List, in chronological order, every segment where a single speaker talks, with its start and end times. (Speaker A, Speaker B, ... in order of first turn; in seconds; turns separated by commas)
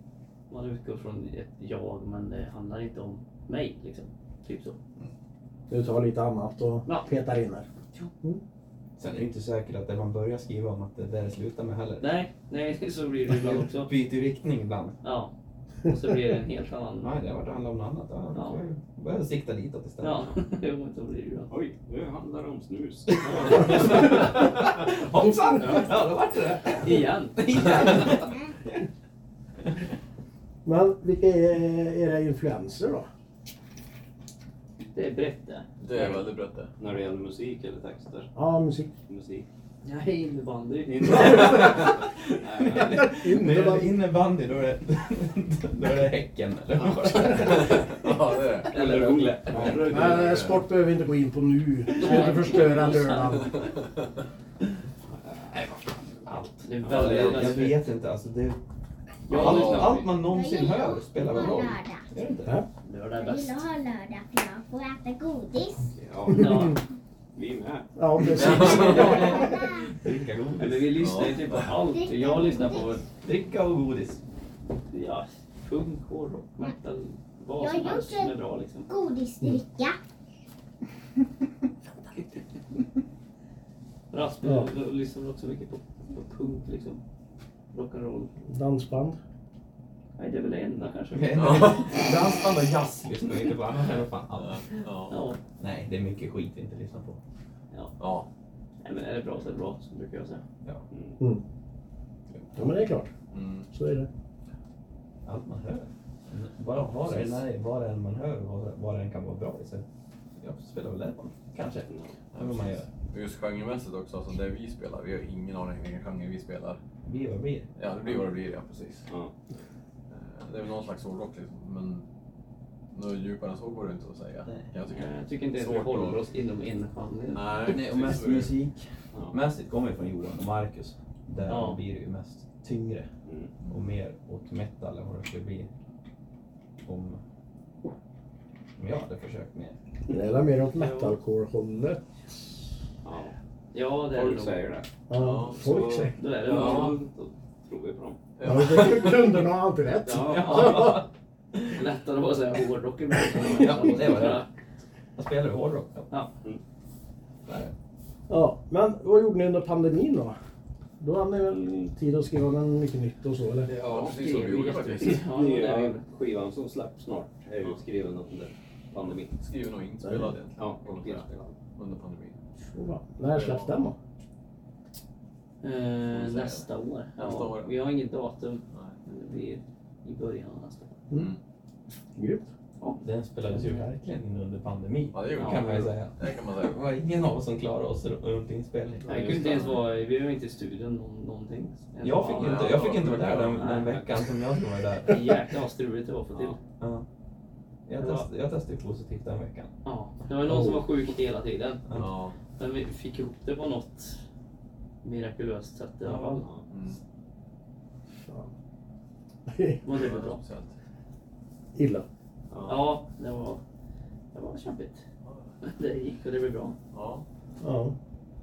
Speaker A: 0.5-4.8, Speaker B: 5.7-7.7, Speaker A: 6.8-7.1, Speaker C: 9.0-12.1, Speaker A: 12.0-13.9, Speaker C: 13.3-15.0, Speaker A: 15.0-15.3, Speaker A: 15.8-17.2, Speaker C: 17.0-20.3, Speaker A: 18.3-18.6, Speaker A: 20.0-21.5, Speaker D: 21.5-23.9, Speaker C: 23.1-28.8, Speaker A: 23.2-24.1, Speaker A: 25.6-25.9, Speaker A: 26.8-28.0, Speaker B: 30.6-33.1, Speaker A: 34.9-36.2, Speaker E: 35.8-36.7, Speaker D: 36.8-38.3, Speaker B: 38.3-38.9, Speaker D: 39.1-39.5, Speaker A: 39.8-41.6, Speaker D: 40.9-43.0, Speaker C: 41.1-48.1, Speaker B: 42.7-44.0, Speaker E: 46.7-48.7, Speaker C: 48.7-50.2, Speaker D: 48.7-50.3, Speaker E: 49.5-50.6, Speaker B: 49.8-53.6, Speaker A: 52.0-53.5, Speaker E: 53.5-54.0, Speaker A: 56.2-57.8, Speaker C: 56.9-58.6, Speaker D: 57.0-57.5, Speaker A: 59.2-60.1, Speaker C: 59.3-62.6, Speaker E: 59.3-60.1, Speaker F: 60.2-62.1, Speaker A: 62.8-63.6, Speaker F: 63.1-65.9, Speaker D: 65.9-66.8, Speaker A: 66.3-66.8, Speaker D: 67.3-67.9, Speaker B: 68.0-69.5, Speaker E: 68.3-69.4, Speaker C: 68.8-71.2, Speaker F: 68.9-69.9, Speaker A: 70.6-73.0, Speaker E: 71.0-71.8, Speaker F: 71.8-73.0, Speaker C: 73.2-74.2, Speaker A: 74.9-78.9, Speaker F: 77.6-78.3, Speaker F: 78.9-80.0, Speaker A: 84.1-87.0, Speaker B: 84.4-84.7, Speaker A: 87.7-88.3, Speaker B: 88.5-89.2, Speaker A: 90.2-91.9, Speaker C: 91.1-94.6, Speaker E: 91.3-92.0, Speaker E: 94.4-95.2, Speaker A: 95.1-95.4, Speaker C: 95.6-97.2, Speaker E: 98.0-98.3, Speaker A: 98.8-100.4, Speaker D: 100.9-101.2, Speaker E: 102.3-102.7, Speaker B: 102.5-103.1, Speaker E: 103.3-103.7, Speaker B: 103.7-104.1, Speaker C: 105.2-109.8, Speaker C: 110.4-112.9, Speaker D: 111.9-112.1, Speaker E: 112.3-116.8, Speaker C: 117.0-117.7, Speaker E: 117.8-119.1, Speaker E: 120.1-122.0, Speaker E: 122.9-126.2, Speaker C: 124.5-124.7, Speaker A: 124.9-127.7, Speaker E: 127.3-128.6, Speaker C: 127.6-133.1, Speaker E: 131.4-131.6, Speaker A: 131.5-131.8, Speaker D: 133.2-133.5, Speaker C: 133.7-135.7, Speaker C: 136.8-137.2, Speaker C: 138.8-139.8, Speaker B: 140.1-142.0, Speaker A: 140.7-141.2, Speaker D: 143.0-143.3, Speaker A: 143.7-144.6, Speaker D: 144.1-144.9, Speaker B: 145.1-146.2, Speaker E: 145.2-145.7, Speaker D: 145.5-148.2, Speaker A: 146.2-146.9, Speaker E: 146.5-146.9, Speaker E: 148.4-149.4, Speaker B: 148.4-151.0, Speaker D: 150.1-150.9, Speaker A: 150.2-151.1, Speaker A: 151.7-154.5, Speaker C: 153.6-154.4, Speaker C: 155.2-156.1, Speaker C: 157.4-157.7, Speaker B: 158.3-160.3, Speaker B: 161.0-163.7, Speaker D: 163.7-164.2, Speaker E: 163.8-165.3, Speaker A: 163.9-166.0, Speaker D: 165.0-169.3, Speaker E: 169.3-172.4, Speaker B: 170.0-170.3, Speaker D: 170.6-171.6, Speaker B: 172.7-173.9, Speaker E: 173.3-173.8, Speaker A: 175.6-181.0, Speaker E: 176.1-176.7, Speaker E: 177.2-177.7, Speaker E: 181.1-181.4, Speaker B: 182.2-182.5, Speaker C: 183.0-189.4, Speaker B: 183.5-183.9, Speaker E: 185.1-186.8, Speaker A: 185.3-185.7, Speaker A: 189.1-192.9, Speaker D: 189.1-189.4, Speaker E: 189.1-189.8, Speaker C: 192.0-195.4, Speaker E: 192.3-193.7, Speaker A: 193.5-194.0, Speaker A: 195.1-196.6, Speaker C: 196.8-197.0, Speaker C: 197.9-199.7, Speaker A: 198.0-198.3, Speaker A: 199.8-201.8, Speaker B: 200.4-200.8, Speaker E: 201.9-202.3, Speaker A: 202.6-204.2, Speaker A: 205.0-206.4, Speaker C: 206.0-206.4, Speaker E: 206.7-207.0, Speaker B: 208.2-208.5, Speaker B: 209.5-209.8, Speaker A: 209.8-210.4, Speaker E: 209.9-210.7, Speaker B: 211.7-212.1, Speaker E: 212.5-212.8, Speaker A: 212.7-213.6, Speaker A: 214.3-215.0, Speaker A: 215.6-216.8, Speaker E: 216.9-217.2, Speaker B: 217.6-217.9